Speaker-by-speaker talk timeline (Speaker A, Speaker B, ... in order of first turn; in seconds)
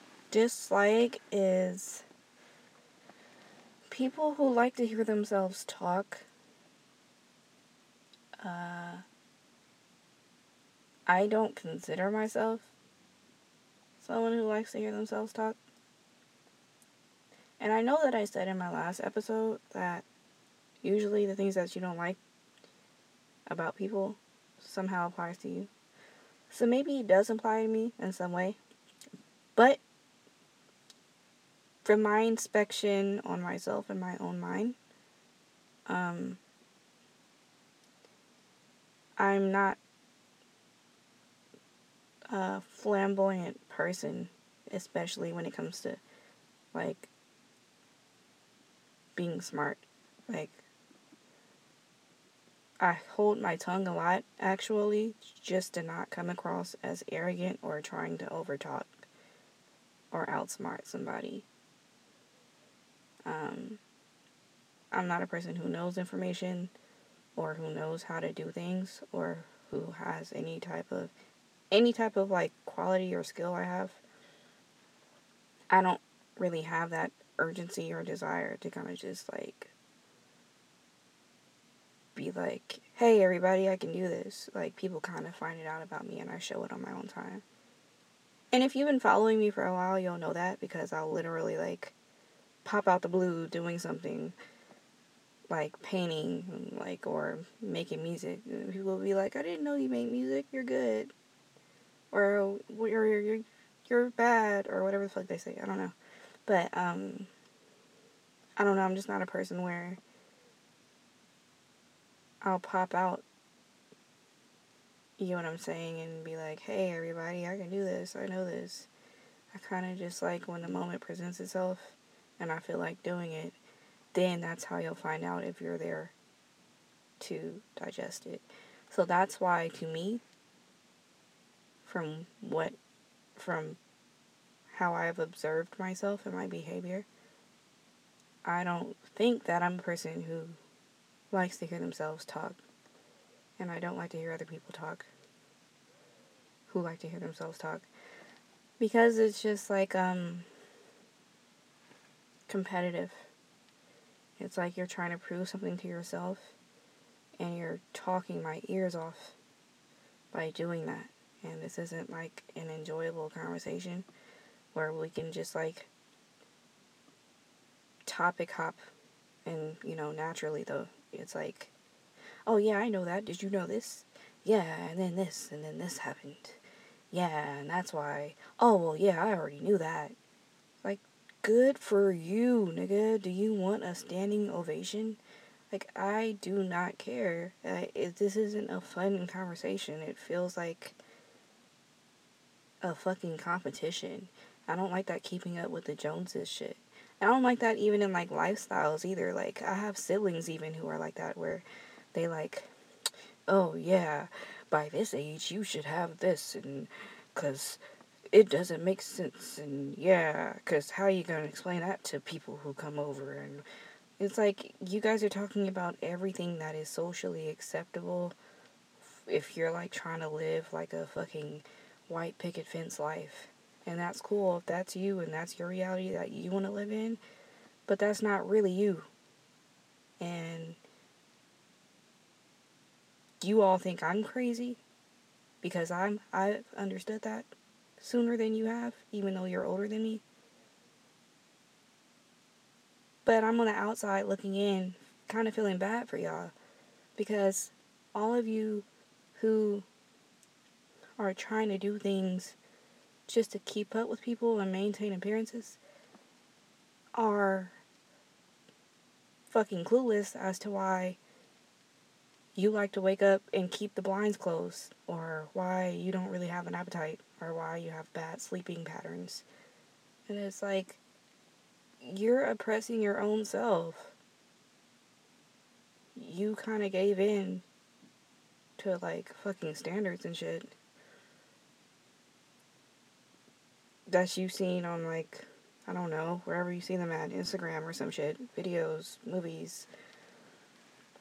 Speaker A: 0.3-2.0, 3.9-6.3, 8.4-9.0, 11.1-12.7, 14.0-15.6, 17.6-20.1, 20.8-22.2, 23.5-25.7, 26.5-28.6, 29.6-29.8, 31.9-34.8, 35.9-36.4, 39.2-39.8, 42.3-46.0, 46.7-47.1, 49.1-50.6, 52.8-58.9, 60.1-61.5, 63.3-63.8, 64.9-66.7, 67.4-71.1, 71.7-74.0, 75.7-79.7, 82.2-87.4, 88.5-91.9, 92.6-94.3, 95.5-101.1, 102.1-106.0, 106.5-107.3, 108.6-110.0, 112.4-113.2, 115.2-118.9, 119.5-123.6, 124.1-126.1, 127.2-130.2, 131.8-132.8, 133.4-133.8, 134.7-137.1, 138.4-140.6, 141.3-142.6, 143.6-145.1, 146.7-147.9, 148.8-150.5, 152.5-153.2, 154.4-156.6, 157.4-159.4, 160.3-164.1, 164.7-165.9, 168.1-168.9, 169.4-171.7, 172.5-176.6, 177.1-180.2, 180.8-185.2, 185.7-191.0, 192.8-202.7, 203.5-207.8, 208.3-213.7, 214.2-218.4, 219.2-227.2, 227.9-229.1, 230.2-230.8, 233.4-234.8, 235.6-240.2, 243.2-246.5, 247.2-249.9, 251.2-252.6, 253.3-255.8, 257.2-257.8, 259.5-261.2, 262.6-269.4, 270.3-271.0, 272.0-274.1, 276.1-277.6, 278.8-280.7, 284.1-289.9